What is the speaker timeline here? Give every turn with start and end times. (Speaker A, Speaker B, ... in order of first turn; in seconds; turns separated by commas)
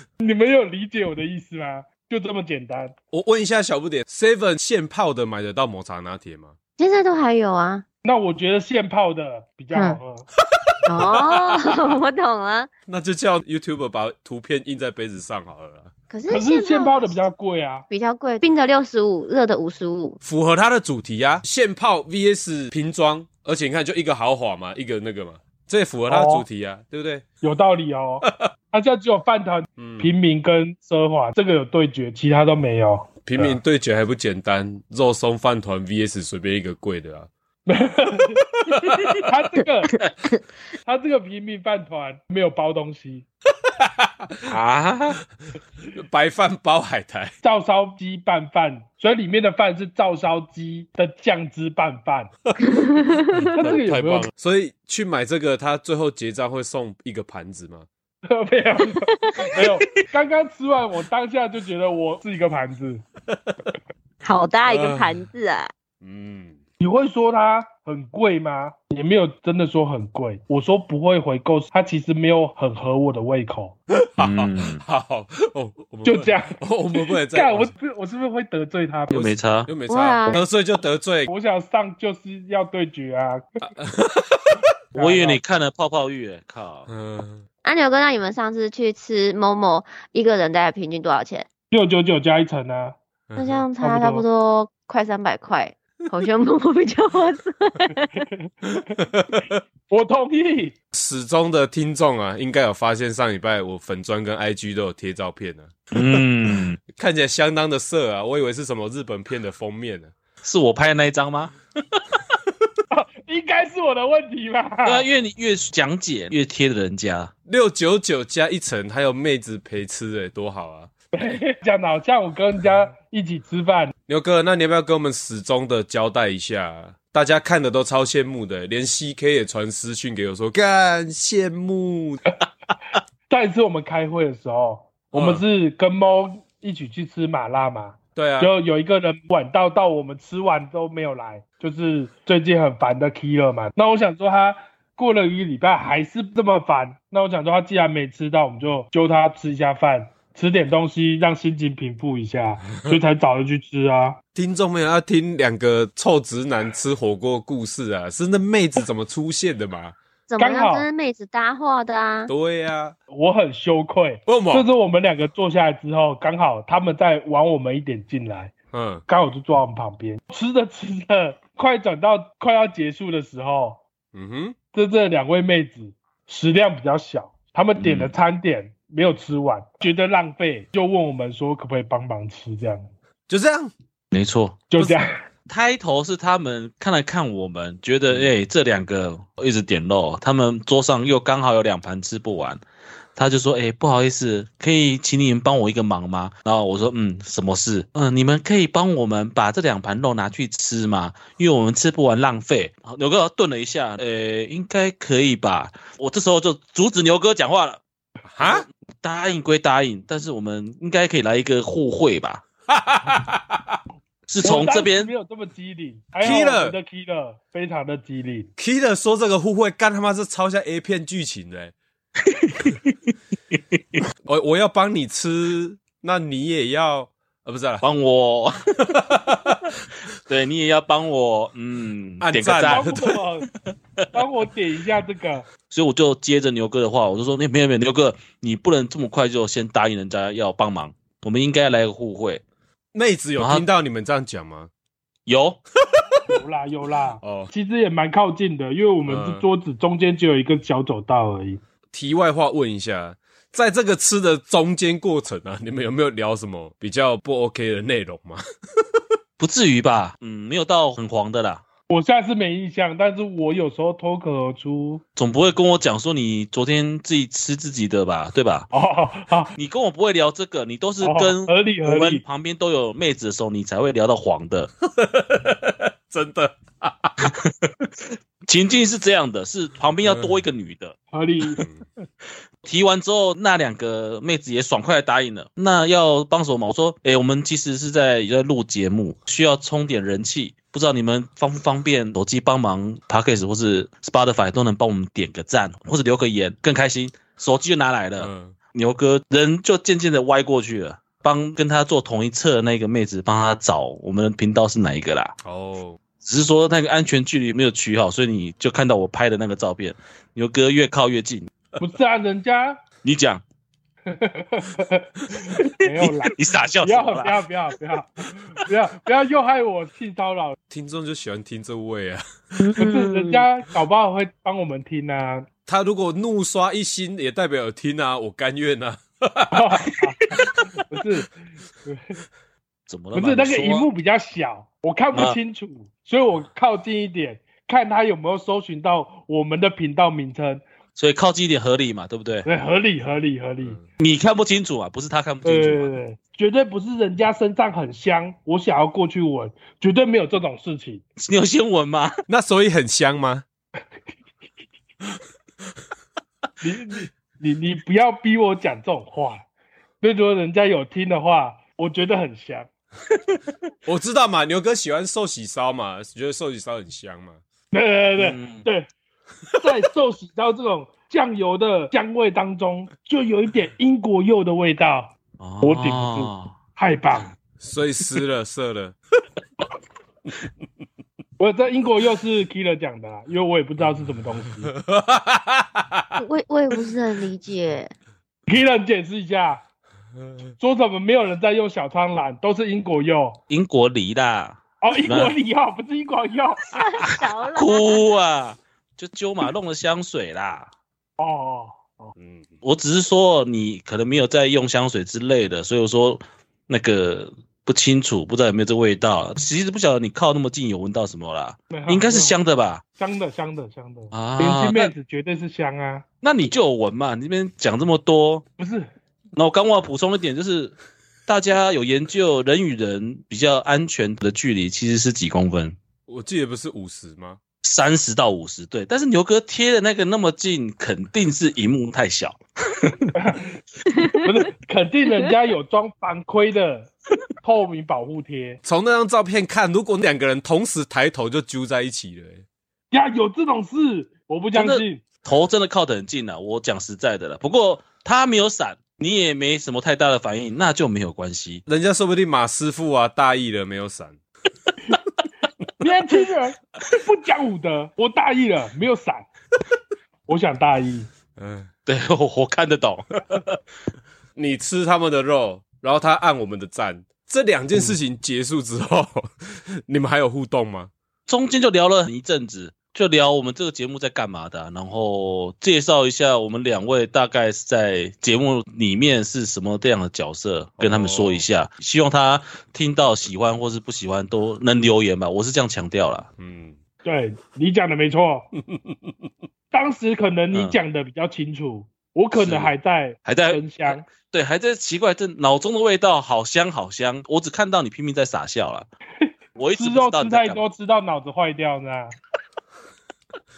Speaker A: 0.2-2.9, Speaker B: 3.1-6.6, Speaker C: 6.8-7.8, Speaker A: 8.0-10.3, Speaker C: 9.7-10.0, Speaker B: 10.6-12.0, Speaker C: 10.9-12.7, Speaker B: 12.9-15.9, Speaker C: 16.1-17.1, Speaker A: 16.3-17.9, Speaker C: 17.9-20.2, Speaker B: 20.2-27.2, Speaker A: 26.1-26.4, Speaker A: 27.4-33.6, Speaker B: 28.2-28.5, Speaker B: 29.8-30.1, Speaker B: 33.2-37.3, Speaker A: 37.7-38.5, Speaker B: 38.7-39.3, Speaker A: 39.2-39.9, Speaker A: 40.8-43.3, Speaker B: 43.7-44.5, Speaker D: 44.5-45.2, Speaker B: 45.9-47.3, Speaker A: 47.4-52.3, Speaker C: 52.7-53.5, Speaker B: 53.4-57.9, Speaker A: 53.5-54.3, Speaker A: 58.3-63.0, Speaker C: 59.1-59.5, Speaker C: 64.2-65.7, Speaker B: 64.7-65.2, Speaker B: 66.0-66.6, Speaker A: 66.8-73.8, Speaker B: 73.9-77.7, Speaker D: 74.2-74.8, Speaker A: 76.0-79.3, Speaker D: 79.1-79.7, Speaker B: 79.7-81.3, Speaker C: 79.9-80.4, Speaker A: 81.3-83.4, Speaker B: 83.6-84.7, Speaker A: 85.0-85.4, Speaker D: 85.0-86.9, Speaker B: 86.9-87.4, Speaker C: 87.6-91.5, Speaker A: 91.7-93.0, Speaker B: 93.3-93.6, Speaker C: 93.4-98.1, Speaker A: 93.8-94.2, Speaker A: 98.2-98.5, Speaker B: 98.8-99.6, Speaker A: 99.9-100.8, Speaker B: 100.9-106.2, Speaker D: 105.9-106.8, Speaker B: 106.9-110.1, Speaker D: 110.4-112.0, Speaker A: 112.9-115.1, Speaker D: 114.8-117.3, Speaker B: 117.5-120.9, Speaker A: 121.1-123.9, Speaker B: 124.1-132.2, Speaker A: 133.3-154.2, Speaker B: 135.1-135.4, Speaker B: 138.2-138.5, Speaker B: 154.3-160.0, Speaker C: 160.3-162.3, Speaker A: 160.4-160.9, Speaker B: 162.3-162.9, Speaker A: 163.1-168.5, Speaker B: 164.3-164.7, Speaker B: 168.7-169.0, Speaker A: 169.1-173.8, Speaker B: 174.1-174.6, Speaker A: 174.7-182.9, Speaker D: 177.8-178.1, Speaker B: 183.3-183.7, Speaker D: 184.1-184.6, Speaker A: 184.7-185.1, Speaker D: 185.5-192.6, Speaker D: 193.2-207.8, Speaker B: 208.3-208.6, Speaker D: 208.4-212.4, Speaker B: 212.7-213.8, Speaker D: 214.3-215.1, Speaker A: 214.4-218.5, Speaker B: 216.2-216.8, Speaker B: 218.6-221.7, Speaker D: 222.2-222.9, Speaker D: 223.5-224.0, Speaker B: 224.2-227.8, Speaker D: 227.8-228.6, Speaker B: 228.9-229.8, Speaker D: 230.2-233.0, Speaker B: 232.2-233.1, Speaker A: 232.7-233.5, Speaker A: 234.1-235.5, Speaker D: 235.7-242.4, Speaker B: 242.9-244.7, Speaker D: 243.4-243.7, Speaker D: 245.3-245.6, Speaker A: 246.3-251.6, Speaker B: 247.2-247.5, Speaker B: 249.1-249.4, Speaker B: 251.9-259.0, Speaker D: 259.4-261.6, Speaker A: 261.9-265.0, Speaker D: 265.2-268.7, Speaker A: 268.7-269.5, Speaker D: 269.6-274.7, Speaker A: 271.0-272.2, Speaker B: 274.9-277.3, Speaker D: 277.2-277.9, Speaker D: 278.5-281.0, Speaker B: 280.1-280.4, Speaker A: 281.1-281.6, Speaker D: 282.6-305.4, Speaker B: 298.2-298.6, Speaker B: 305.4-306.0, Speaker D: 306.2-311.5, Speaker A: 311.8-312.8, Speaker D: 313.0-313.4, Speaker A: 314.1-320.6, Speaker D: 315.6-317.4, Speaker B: 320.7-322.7, Speaker A: 322.8-325.5, Speaker B: 325.7-329.7, Speaker A: 329.5-331.3, Speaker A: 331.9-332.1, Speaker D: 332.9-333.9, Speaker A: 333.1-340.6, Speaker D: 341.0-342.5, Speaker A: 342.5-343.8, Speaker D: 344.0-345.9, Speaker A: 345.4-351.0, Speaker D: 351.2-352.1, Speaker B: 352.3-353.4, Speaker A: 356.6-359.4, Speaker A: 360.0-362.7, Speaker B: 363.9-367.4, Speaker A: 367.7-368.9, Speaker D: 368.2-368.7, Speaker A: 369.6-377.4, Speaker D: 375.4-376.6, Speaker B: 377.6-379.0, Speaker A: 381.4-384.7, Speaker B: 384.7-386.2, Speaker C: 386.2-387.9, Speaker A: 388.5-389.6, Speaker A: 390.6-393.4, Speaker D: 393.5-395.3, Speaker A: 394.8-396.7, Speaker C: 396.7-398.1, Speaker D: 397.6-400.7, Speaker A: 401.2-402.1, Speaker B: 402.2-402.4, Speaker D: 402.6-412.8, Speaker A: 411.7-412.4, Speaker A: 413.0-416.0, Speaker D: 414.1-414.9, Speaker D: 416.2-418.4, Speaker A: 418.6-418.9, Speaker D: 419.3-420.8, Speaker D: 421.3-425.8, Speaker B: 426.1-427.4, Speaker D: 427.6-433.1, Speaker A: 433.1-433.5, Speaker C: 433.9-434.2, Speaker A: 434.1-438.6, Speaker B: 438.6-442.4, Speaker A: 442.9-445.0, Speaker D: 444.5-451.6, Speaker B: 451.7-454.2, Speaker A: 455.8-459.3, Speaker A: 460.3-461.1, Speaker B: 461.4-461.7, Speaker D: 461.9-463.6, Speaker B: 464.4-470.9, Speaker D: 471.3-486.3, Speaker B: 480.8-481.4, Speaker B: 486.4-486.8, Speaker A: 487.0-488.5, Speaker B: 488.7-489.1, Speaker A: 489.7-494.0, Speaker D: 492.3-492.7, Speaker D: 493.3-498.9, Speaker A: 499.2-502.1, Speaker D: 499.6-500.6